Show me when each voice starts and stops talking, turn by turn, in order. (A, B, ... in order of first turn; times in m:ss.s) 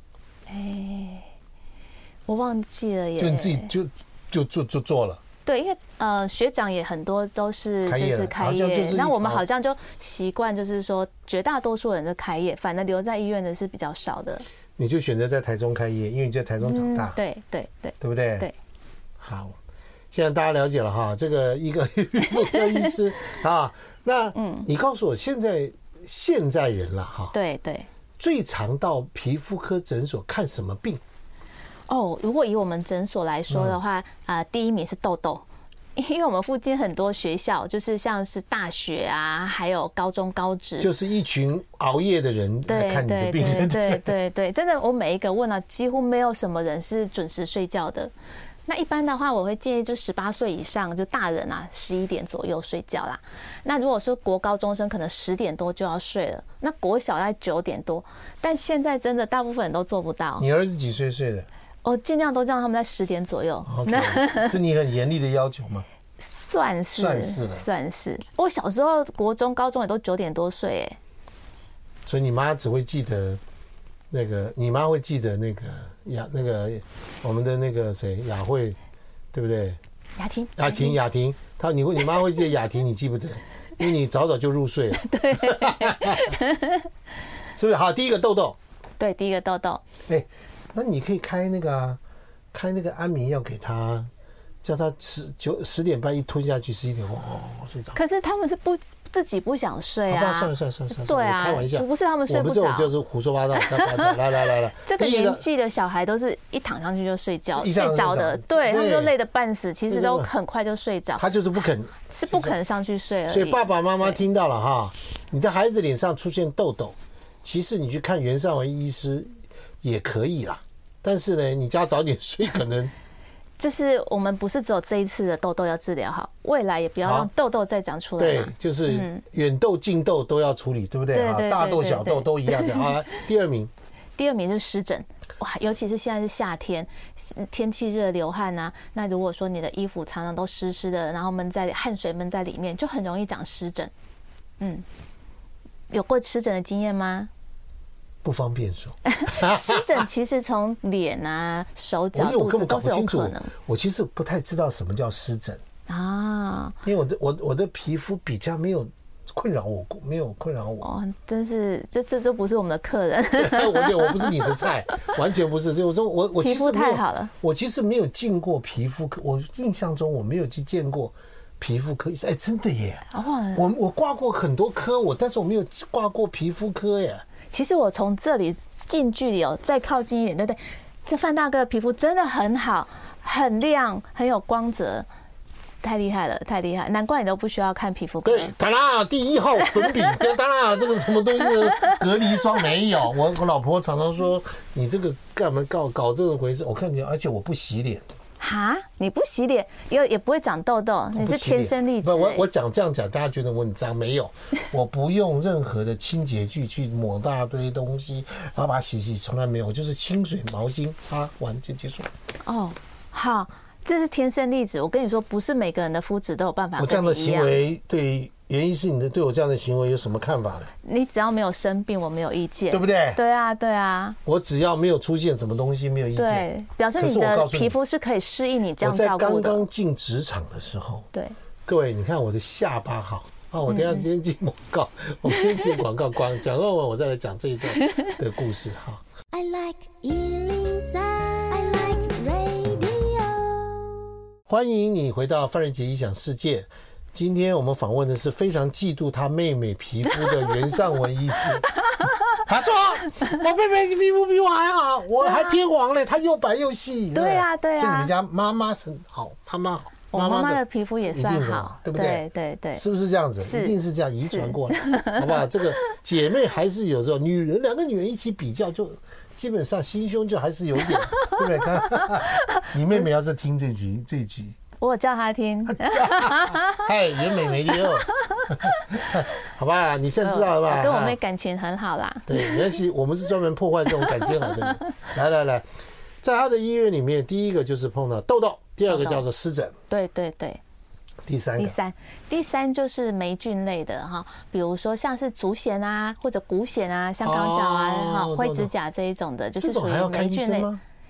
0:00.5-0:01.3 A
0:02.3-0:03.7 A
0:03.2-0:05.2 B
0:05.4-0:14.5 A
0:07.9-0:09.4 B
0:14.8-0:17.2 B
0:16.6-0:18.5 A
0:18.0-0:18.5 B
0:19.2-0:19.6 B
0:20.1-0:27.4 B
0:22.4-0:22.9 A
0:24.4-0:24.7 A
0:27.3-0:27.9 A
0:28.2-0:31.0 B
0:31.9-0:35.4 A
0:33.5-0:33.8 B
0:36.0-0:40.9 A
0:40.8-0:44.1 B
0:42.7-0:48.1 A
0:48.7-1:00.5 A
1:00.4-1:01.5 B
1:01.8-1:04.6 A
1:03.6-1:05.8 B
1:06.2-1:11.0 A
1:06.9-1:07.6 B
1:12.1-1:13.4 B
1:14.1-1:18.8 B
1:19.3-1:19.8 B
1:20.2-1:21.0 A
1:20.6-1:26.4 B
1:25.0-1:26.9 A
1:27.6-1:28.6 B
1:29.0-1:29.8 A
1:30.1-1:32.0 B
1:32.5-1:34.1 B
1:34.6-1:38.0 B
1:38.0-1:42.9 A
1:40.1-1:45.4 B
1:43.6-1:51.2 A
1:47.6-1:49.1 B
1:49.9-1:50.3 B
1:51.2-1:52.6 B
1:52.1-1:54.2 A
1:53.3-2:02.9 B
2:03.6-2:09.2 A
2:07.0-2:07.3 B
2:08.2-2:13.7 B
2:11.1-2:12.9 A
2:14.2-2:23.9 A
2:24.6-2:24.8 A
2:25.9-2:27.3 A
2:28.2-2:30.1 B
2:29.1-2:33.5 A
2:32.1-2:35.6 B
2:35.9-2:36.8 A
2:36.8-2:40.9 B
2:40.8-2:44.7 A
2:43.4-2:57.2 B
2:46.4-2:47.3 A
2:53.1-2:53.6 A
2:57.5-3:05.1 A
3:05.8-3:08.5 A
3:08.2-3:18.0 B
3:09.6-3:10.3 A
3:11.5-3:12.0 A
3:18.4-3:22.5 A
3:21.2-3:32.1 B
3:32.4-3:37.6 A
3:36.8-3:40.7 B
3:40.8-3:44.2 A
3:42.7-3:43.2 B
3:44.3-3:47.8 B
3:46.2-3:49.6 A
3:48.8-3:51.1 B
3:51.7-3:59.0 B
3:53.7-3:54.1 A
3:59.3-4:04.1 C
4:04.5-4:11.7 B
4:10.2-4:10.5 A
4:12.3-4:22.2 B
4:15.2-4:15.6 A
4:17.1-4:18.1 A
4:20.1-4:22.8 A
4:22.8-4:34.6 B
4:23.4-4:25.5 A
4:30.9-4:32.7 A
4:34.8-4:36.8 A
4:35.7-4:41.2 B
4:37.7-4:38.7 A
4:40.2-4:42.8 A
4:42.3-4:45.7 B
4:44.0-4:44.6 A
4:46.2-4:49.8 B
4:48.9-4:49.2 A
4:49.9-4:50.6 A
4:51.3-4:51.8 B
4:51.6-5:00.7 A
4:57.2-4:58.7 B
4:59.6-5:00.8 B